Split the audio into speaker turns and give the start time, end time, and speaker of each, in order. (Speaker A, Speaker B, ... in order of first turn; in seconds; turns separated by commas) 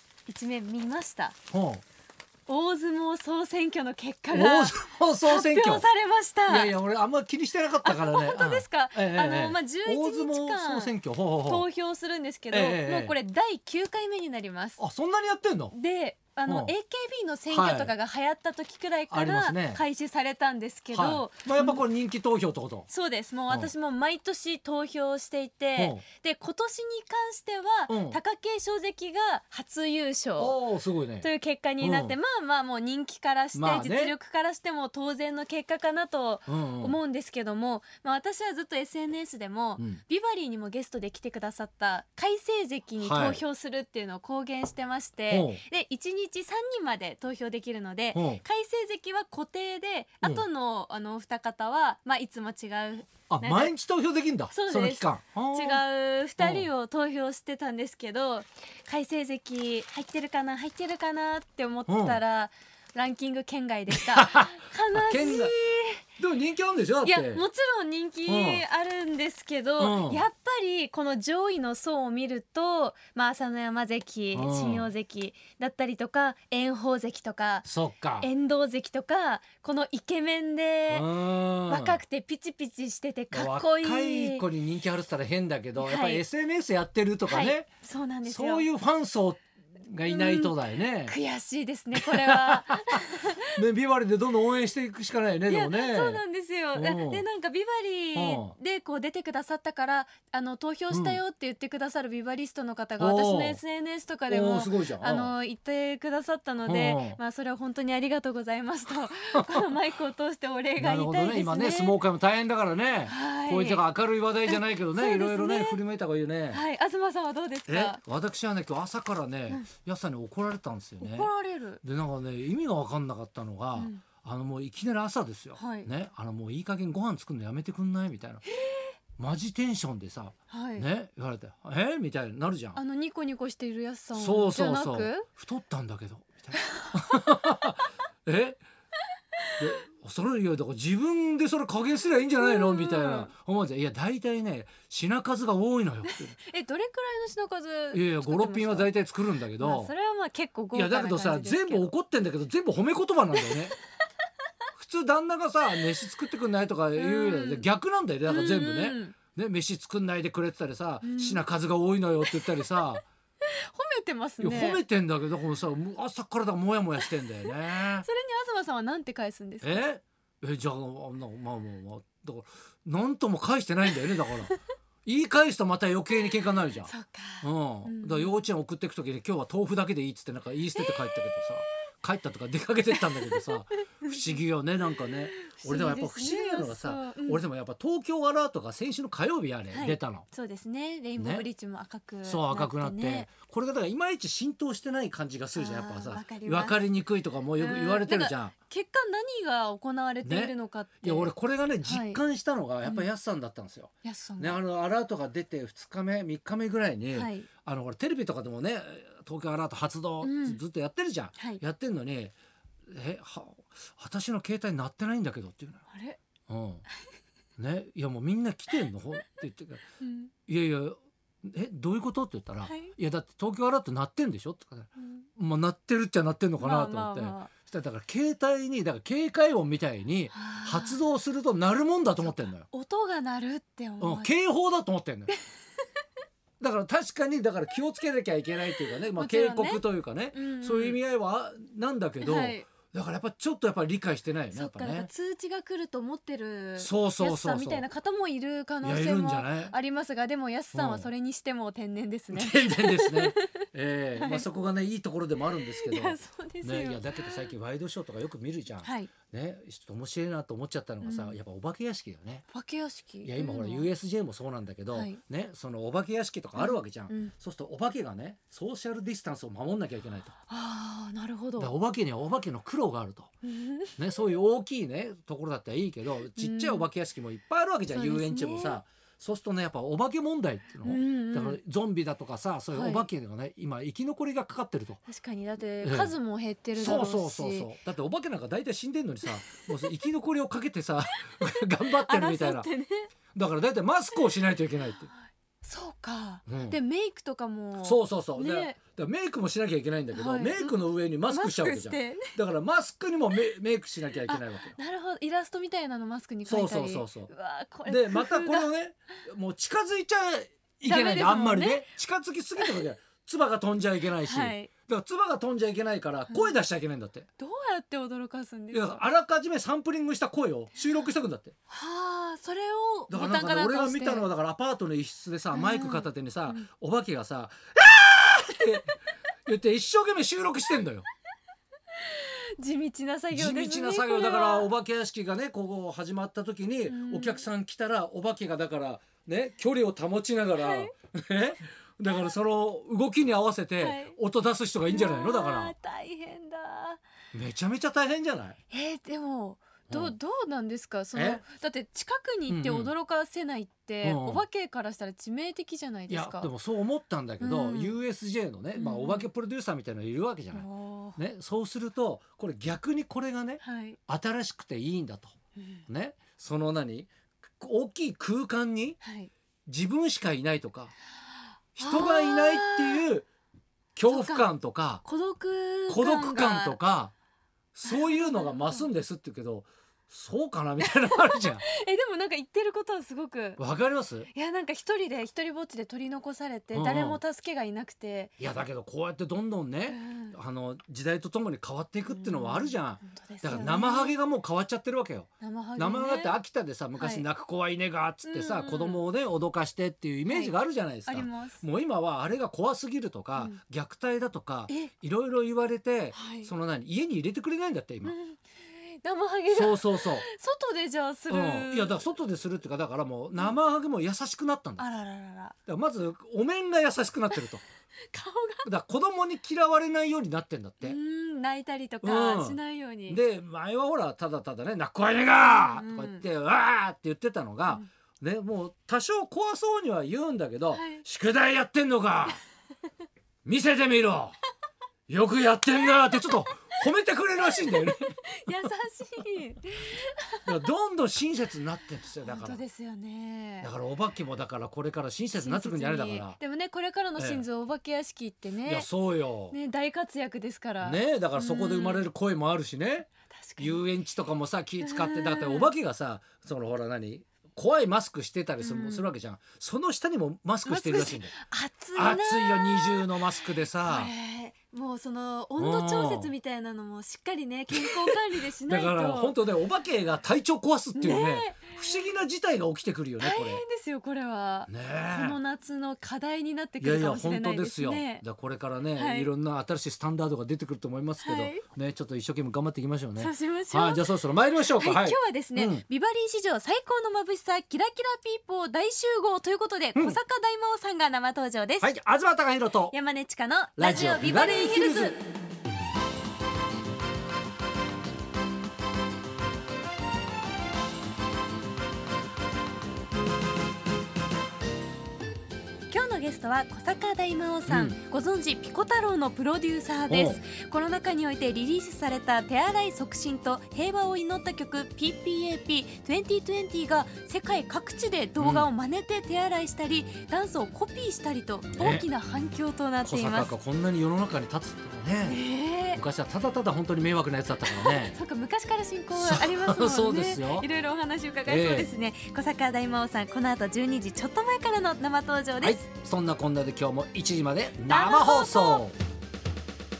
Speaker A: 0.3-1.4, Speaker B: 1.5-1.8, Speaker A: 2.5-6.7, Speaker B: 4.3-5.8, Speaker B: 6.5-11.7, Speaker A: 7.8-14.8, Speaker B: 12.5-13.2, Speaker B: 14.8-15.7, Speaker A: 15.7-21.8, Speaker B: 16.5-16.7, Speaker B: 17.5-17.9, Speaker B: 19.1-19.8, Speaker B: 20.9-22.9, Speaker A: 22.9-30.6, Speaker B: 25.8-26.0, Speaker B: 27.9-28.2, Speaker B: 30.4-31.3, Speaker A: 31.2-53.7, Speaker B: 31.8-32.2, Speaker B: 33.5-34.1, Speaker B: 36.5-37.0, Speaker B: 43.0-43.4, Speaker B: 45.3-45.6, Speaker B: 48.1-48.4, Speaker B: 53.3-55.8, Speaker A: 54.5-66.0, Speaker B: 56.4-56.7, Speaker B: 61.9-62.2, Speaker B: 63.9-65.5, Speaker B: 66.2-67.4, Speaker A: 67.0-77.7, Speaker B: 68.3-68.6, Speaker B: 69.8-70.3, Speaker B: 74.3-74.9, Speaker B: 77.7-78.3, Speaker A: 78.2-81.1, Speaker B: 80.9-82.0, Speaker A: 81.7-84.5, Speaker B: 83.3-87.7, Speaker A: 85.8-86.2, Speaker A: 87.3-88.7, Speaker B: 88.2-91.2, Speaker A: 90.1-93.6, Speaker B: 91.9-96.2, Speaker A: 95.5-112.0, Speaker B: 96.7-97.2, Speaker B: 98.2-98.5, Speaker B: 100.9-101.2, Speaker B: 103.0-103.6, Speaker B: 104.3-105.3, Speaker B: 106.7-107.2, Speaker B: 109.3-109.7, Speaker B: 110.8-116.6, Speaker A: 113.1-113.8, Speaker A: 114.5-115.8, Speaker A: 116.5-118.0, Speaker B: 117.7-128.4, Speaker A: 121.0-121.8, Speaker A: 123.8-124.0, Speaker A: 125.6-125.9, Speaker B: 129.2-132.8, Speaker A: 130.5-130.9, Speaker A: 132.8-135.3, Speaker B: 134.1-138.6, Speaker A: 136.5-136.9, Speaker B: 139.6-146.3, Speaker A: 142.4-143.3, Speaker A: 146.1-148.9, Speaker B: 147.9-149.9, Speaker A: 149.6-151.9, Speaker B: 150.7-153.8, Speaker A: 153.3-153.7, Speaker B: 154.8-163.1, Speaker A: 157.0-157.7, Speaker A: 158.3-159.2, Speaker A: 161.0-161.4, Speaker A: 162.2-162.6, Speaker A: 163.4-164.8, Speaker B: 164.4-168.1, Speaker A: 167.0-169.8, Speaker B: 169.6-190.3, Speaker A: 176.8-178.4, Speaker A: 180.8-181.7, Speaker A: 182.9-184.2, Speaker A: 185.0-187.4, Speaker A: 189.7-193.3, Speaker B: 191.2-191.4, Speaker B: 192.2-198.5, Speaker A: 195.6-196.8, Speaker A: 197.6-201.3, Speaker B: 200.2-212.3, Speaker A: 201.8-202.2, Speaker A: 204.0-204.6, Speaker A: 207.1-207.5, Speaker A: 210.2-210.6, Speaker B: 212.9-215.8, Speaker A: 215.9-216.2, Speaker B: 216.5-216.8, Speaker B: 217.6-219.8, Speaker A: 220.0-220.3, Speaker B: 220.5-232.7, Speaker A: 222.6-222.9, Speaker A: 225.0-225.2, Speaker A: 226.6-227.5, Speaker A: 230.3-231.0, Speaker A: 232.2-234.3, Speaker B: 234.0-235.3, Speaker B: 236.6-245.1, Speaker A: 239.1-241.0, Speaker A: 242.2-242.7, Speaker A: 244.5-253.6, Speaker B: 246.8-247.8, Speaker B: 248.8-249.8, Speaker B: 250.7-251.1, Speaker B: 252.3-262.4, Speaker A: 254.2-254.5, Speaker A: 255.5-257.5, Speaker A: 258.8-259.1, Speaker A: 261.0-261.4, Speaker A: 262.5-263.9, Speaker B: 263.2-270.3, Speaker A: 264.9-265.2, Speaker A: 266.6-267.3, Speaker A: 270.5-271.7, Speaker B: 271.6-273.3, Speaker A: 273.4-274.0, Speaker B: 274.0-285.0, Speaker A: 276.4-276.9, Speaker A: 277.9-278.8, Speaker A: 280.8-281.6, Speaker A: 282.7-283.1, Speaker A: 285.1-287.7, Speaker B: 285.8-286.1, Speaker B: 286.8-292.7, Speaker A: 289.3-289.9, Speaker A: 291.4-293.1, Speaker B: 293.3-295.1, Speaker A: 294.9-298.8, Speaker B: 296.5-296.8, Speaker B: 297.8-304.8, Speaker A: 300.1-302.3, Speaker A: 304.3-308.7, Speaker B: 306.5-307.3, Speaker B: 307.9-317.3, Speaker A: 310.9-311.9, Speaker A: 314.2-314.7, Speaker A: 316.3-316.6, Speaker A: 317.4-319.0, Speaker B: 318.7-321.6, Speaker A: 321.7-324.3, Speaker B: 323.1-328.9, Speaker A: 325.5-326.7, Speaker B: 329.5-331.1, Speaker A: 331.9-334.7, Speaker B: 333.3-345.7, Speaker A: 336.9-337.5, Speaker A: 340.6-340.9, Speaker A: 343.8-344.2, Speaker A: 344.9-347.0, Speaker B: 347.3-348.6, Speaker A: 348.7-356.5, Speaker B: 349.9-350.1, Speaker B: 351.1-351.4, Speaker B: 352.5-352.9, Speaker B: 354.0-354.4, Speaker B: 356.1-365.4, Speaker A: 357.4-358.0, Speaker A: 358.8-359.3, Speaker A: 360.5-361.2, Speaker A: 363.6-364.0, Speaker A: 365.6-365.9, Speaker B: 365.9-369.0, Speaker A: 369.0-369.3, Speaker B: 369.7-370.9, Speaker A: 371.8-373.1, Speaker B: 371.8-373.3, Speaker B: 374.0-375.0, Speaker A: 374.1-374.5, Speaker A: 375.0-376.8, Speaker B: 375.9-377.1, Speaker B: 377.7-381.6, Speaker A: 377.9-378.9, Speaker A: 380.8-383.6, Speaker B: 383.6-384.3, Speaker A: 384.3-388.3, Speaker B: 386.7-387.2, Speaker B: 388.4-408.2, Speaker A: 389.9-390.4, Speaker A: 392.1-394.2, Speaker A: 395.4-396.4, Speaker A: 397.0-397.3, Speaker A: 398.2-399.1, Speaker A: 400.3-400.6, Speaker A: 401.1-401.6, Speaker A: 406.1-406.5, Speaker A: 408.1-412.0, Speaker B: 409.5-410.2, Speaker B: 411.3-414.9, Speaker A: 414.8-415.6, Speaker B: 415.7-417.6, Speaker A: 418.1-418.7, Speaker B: 418.6-421.0, Speaker A: 420.8-423.2, Speaker B: 422.0-432.4, Speaker A: 425.3-426.2, Speaker A: 430.7-431.1, Speaker B: 433.4-434.4, Speaker B: 435.1-438.2, Speaker A: 436.0-436.4, Speaker A: 437.4-440.7, Speaker B: 440.5-442.6, Speaker A: 442.2-443.7, Speaker B: 443.6-446.4, Speaker A: 445.4-448.9, Speaker B: 447.2-447.4, Speaker B: 448.6-449.6, Speaker A: 449.5-452.1, Speaker B: 450.8-461.3, Speaker A: 453.3-453.8, Speaker A: 454.8-455.7, Speaker A: 458.6-459.1, Speaker A: 460.7-469.4, Speaker B: 461.9-464.1, Speaker B: 465.6-466.3, Speaker B: 467.7-473.6, Speaker A: 471.0-472.0, Speaker A: 473.2-478.2, Speaker B: 474.7-475.4, Speaker B: 476.8-485.9, Speaker A: 479.0-479.3, Speaker A: 481.2-481.6, Speaker A: 483.2-484.1, Speaker A: 484.7-491.9, Speaker B: 491.8-492.9, Speaker A: 492.9-495.2, Speaker B: 493.8-495.2, Speaker A: 505.9-523.5, Speaker B: 507.7-508.0, Speaker B: 510.1-510.4, Speaker B: 518.4-518.7, Speaker B: 521.7-522.1, Speaker B: 523.0-525.4, Speaker A: 525.2-526.0, Speaker B: 525.9-528.2, Speaker A: 527.7-535.9, Speaker B: 529.1-530.7, Speaker B: 531.5-531.9, Speaker B: 535.6-539.0, Speaker A: 537.9-538.8